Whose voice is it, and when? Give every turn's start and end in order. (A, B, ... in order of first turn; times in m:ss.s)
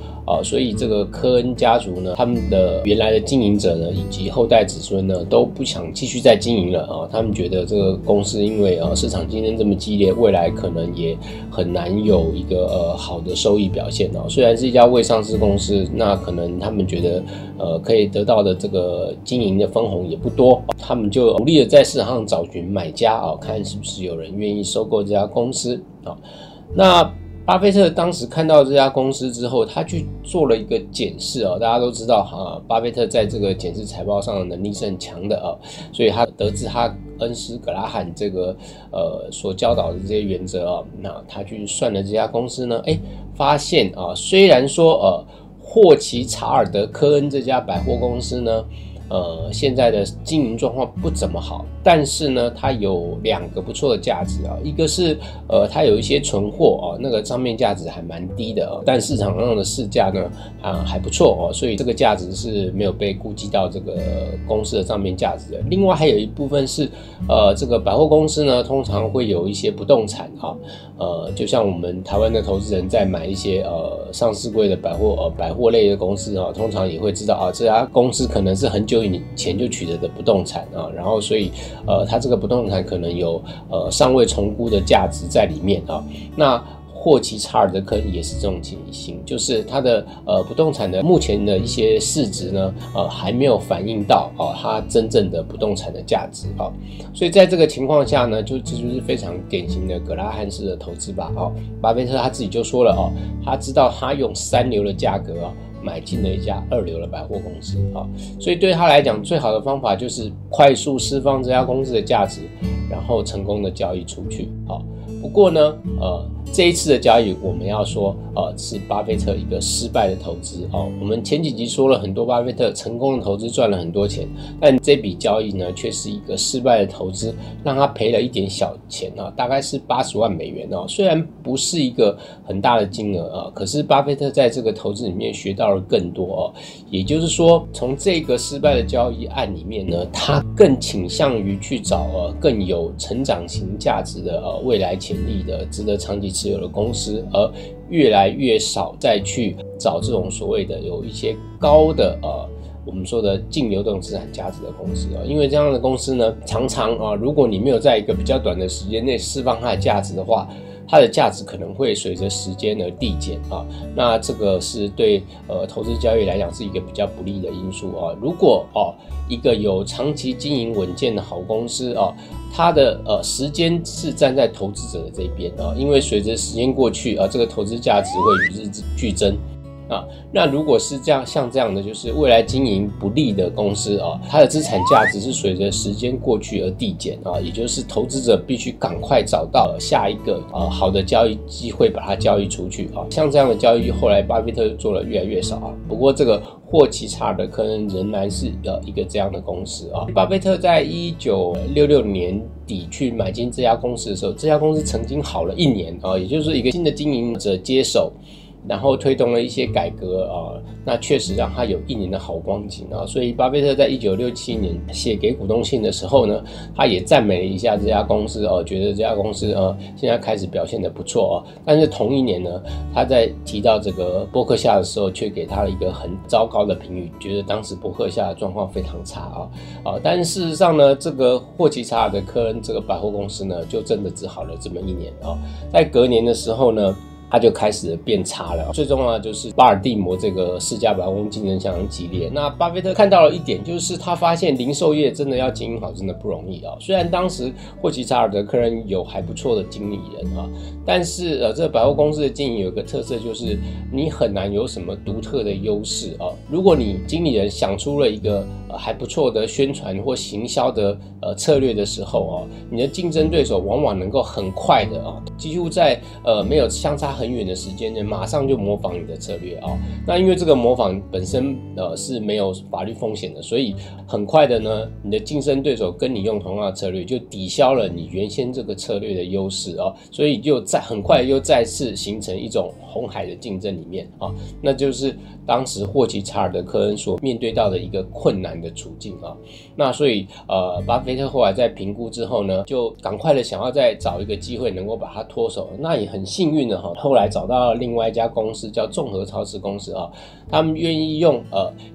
0:00.3-0:26.2 A
0:26.7-5:01.8 A